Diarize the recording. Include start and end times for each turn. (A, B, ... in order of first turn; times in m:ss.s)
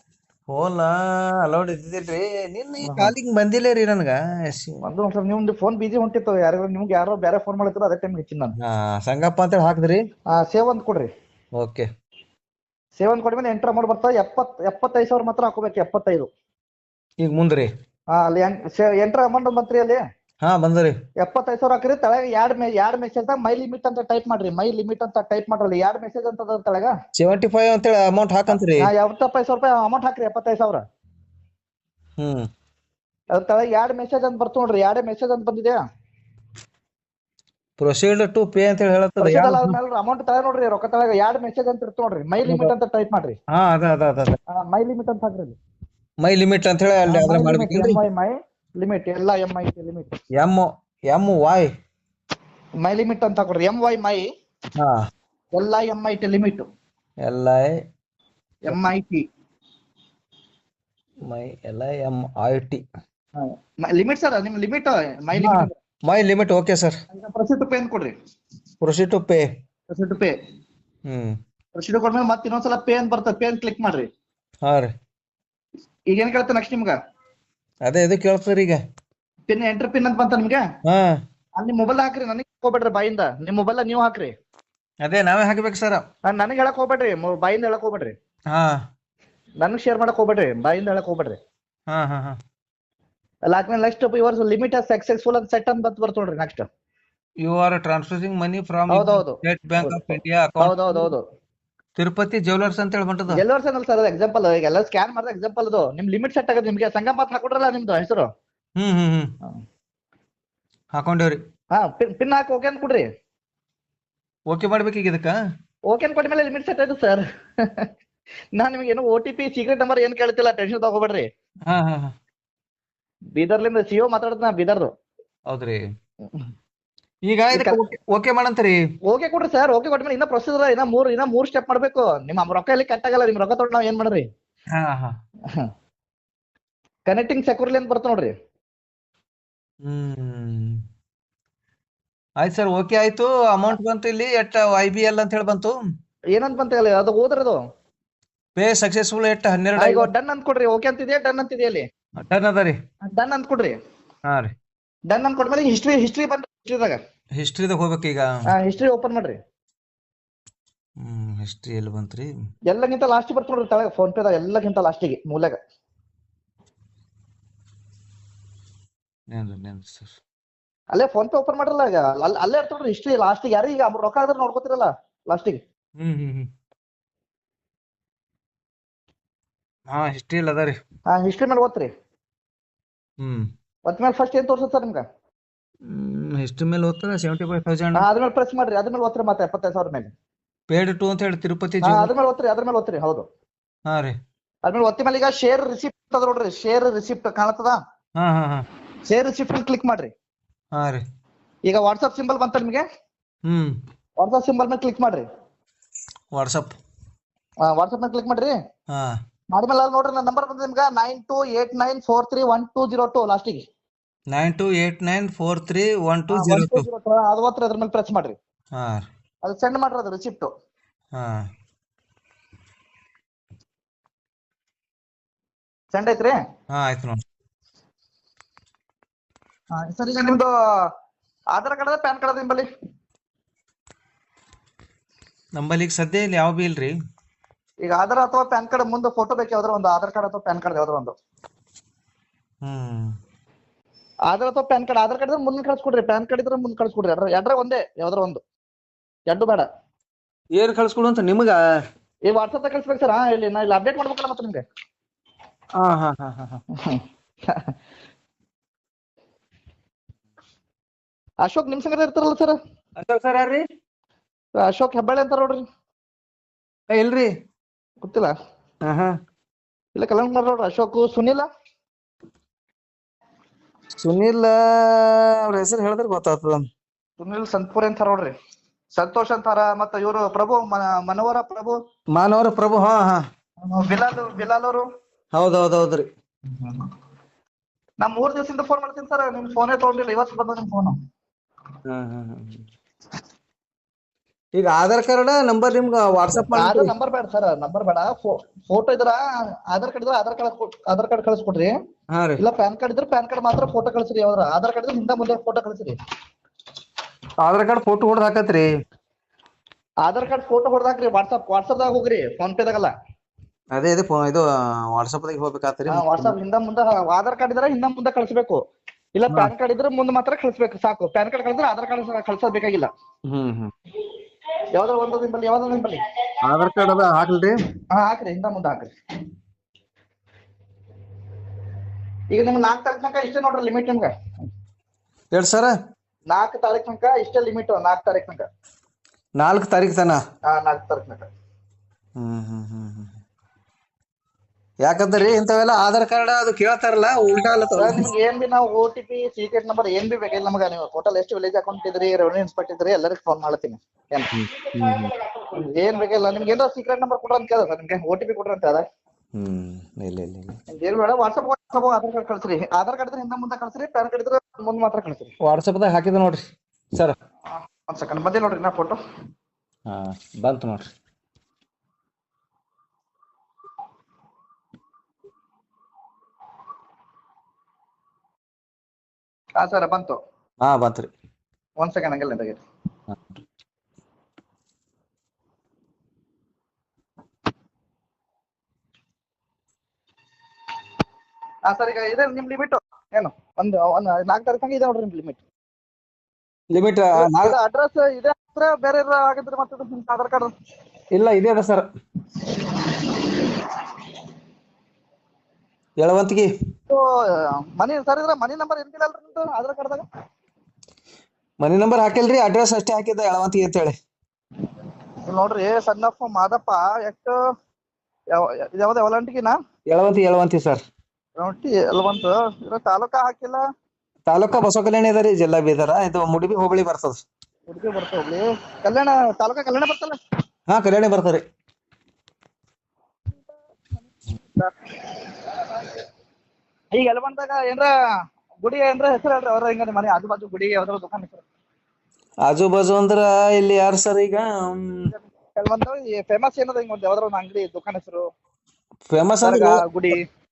0:00.5-0:04.8 A
0:02.8-0:03.1 B
0:04.8-0:08.6 B
0:08.6-0:10.0 A
0:10.3-0:11.1 B
0:11.6-0:11.9 A
0:13.0-0:16.3 B
0:17.2-0:17.7 A
0:18.1-0:20.0 B
0:20.4-0:21.0 A
0:21.2-0:26.9 B
0:27.2-0:28.9 A
0:28.5-0:30.8 B
0:32.2-0:32.5 A
0:33.3-0:35.8 B
0:37.8-0:39.8 A
0:39.2-0:43.4 B
0:42.4-0:42.7 A
0:43.5-0:44.4 A
0:44.5-0:45.6 B
0:46.2-0:48.0 A
0:47.1-0:50.1 B
0:50.4-0:51.7 A
0:52.8-0:54.3 B
0:54.8-0:55.1 A
0:55.5-0:56.7 B
0:57.2-0:57.8 A
0:58.7-0:59.2 B
1:01.3-1:02.8 A
1:03.4-1:05.7 B
1:05.4-1:07.0 A
1:07.1-1:08.1 B
1:08.8-1:09.5 A
1:09.9-1:10.4 B
1:11.1-1:11.4 A
1:11.8-1:14.1 B
1:14.6-1:14.9 A
1:16.1-1:17.0 B
1:17.8-1:18.8 A
1:19.5-1:20.6 B
1:20.9-1:21.2 A
1:21.6-1:24.3 B
1:25.0-1:26.0 A
1:26.3-1:28.1 B
1:28.5-1:28.8 A
1:29.6-1:31.4 B
1:31.9-1:32.4 A
1:33.5-1:36.7 B
1:37.4-1:41.1 A
1:38.9-1:41.2 B
1:42.0-1:43.4 A
1:43.3-1:48.3 B
1:48.8-1:49.4 A
1:50.9-1:51.4 A
1:51.7-1:53.1 B
1:54.5-1:55.4 A
1:55.9-1:57.9 B
1:58.6-2:01.3 B
2:01.7-2:02.1 A
2:03.4-2:04.9 B
2:05.5-2:05.9 A
2:07.2-2:08.8 A
2:07.5-2:07.8 B
2:09.1-2:14.3 B
2:14.7-2:15.2 A
2:17.1-2:18.3 B
2:19.8-2:20.8 A
2:22.4-2:25.8 A
2:26.3-2:27.6 B
2:28.6-2:30.1 A
2:29.8-2:31.8 B
2:32.2-2:32.8 A
2:33.1-2:33.8 B
2:34.3-2:34.5 A
2:35.1-2:37.0 B
2:37.4-2:38.3 A
2:38.5-2:39.4 B
2:41.0-2:42.3 A
2:42.7-2:45.6 B
2:49.3-2:50.2 A
2:50.9-2:55.6 B
2:56.0-2:56.5 A
2:59.9-3:00.8 A
3:01.1-3:01.9 B
3:03.2-3:03.5 A
3:03.8-3:05.0 B
3:05.9-3:08.1 A
3:08.0-3:10.1 B
3:10.7-3:12.1 A
3:11.8-3:13.3 B
3:13.9-3:14.2 A
3:14.6-3:17.8 B
3:18.2-3:18.6 A
3:19.1-3:20.1 B
3:20.7-3:21.0 A
3:21.7-3:22.8 B
3:23.5-3:23.8 A
3:24.2-3:25.2 B
3:26.3-3:26.8 A
3:27.6-3:28.5 B
3:29.5-3:33.6 B
3:34.3-3:36.9 A
3:36.3-3:38.4 B
3:38.7-3:39.1 A
3:39.4-3:40.5 B
3:41.1-3:41.4 A
3:45.9-3:46.4 B
3:46.7-3:47.2 A
3:49.7-3:50.5 B
3:51.5-3:52.7 B
3:55.6-3:57.0 A
3:57.8-4:01.1 B
4:02.6-4:03.2 A
4:04.3-4:08.4 B
4:09.3-4:09.7 B
4:10.5-4:11.6 A
4:12.3-4:14.6 B
4:15.8-4:16.6 A
4:21.4-4:22.6 B
4:23.0-4:23.6 A
4:24.6-4:25.6 B
4:26.9-4:27.3 A
4:28.0-4:28.3 B
4:28.8-4:29.2 A
4:30.0-4:31.5 B
4:34.0-4:36.7 A
4:37.2-4:38.3 B
4:38.9-4:41.8 B
4:42.1-4:43.2 A
4:43.6-4:44.8 B
4:45.3-4:46.1 A
4:46.5-4:46.8 B
4:48.0-4:51.0 B
4:51.9-4:52.6 A
4:54.5-4:56.9 A
4:56.3-4:59.2 B
4:59.7-5:01.7 B
5:02.1-5:02.4 A
5:02.4-5:06.0 B
5:07.4-5:08.7 A
5:10.0-5:12.9 B
5:13.7-5:16.4 A
5:15.9-5:18.6 B
5:19.1-5:22.9 B
5:23.3-5:23.7 A
5:24.7-5:26.0 B
5:26.4-5:27.6 A
5:27.9-5:28.9 B
5:32.3-5:34.1 B
5:35.3-5:35.7 A
5:36.3-5:38.4 B
5:39.4-5:40.2 A
5:40.5-5:41.3 B
5:42.2-5:43.1 A
5:44.8-5:48.1 A
5:47.8-5:54.3 B
5:54.3-5:55.1 A
5:55.4-5:58.8 B
5:59.4-6:00.6 A
6:00.7-6:05.3 B
6:05.4-6:07.2 A
6:07.5-6:09.0 B
6:09.9-6:10.9 A
6:19.6-6:20.2 B
6:20.6-6:21.1 A
6:21.8-6:22.6 B
6:31.7-6:35.4 B
6:36.7-6:37.6 A
6:37.2-6:40.5 B
6:41.1-6:41.9 A
6:46.0-6:46.5 A
6:47.8-6:50.0 B
6:51.6-6:54.0 A
6:55.3-6:57.4 B
6:58.3-6:59.6 B
6:59.9-7:00.8 A
7:01.4-7:03.6 B
7:04.3-7:07.2 A
7:07.7-7:10.2 B
7:10.7-7:11.4 A
7:14.4-7:14.7 B
7:16.9-7:17.9 B
7:18.6-7:21.4 B
7:22.4-7:25.1 A
7:25.1-7:28.3 B
7:29.1-7:30.2 A
7:29.4-7:30.2 B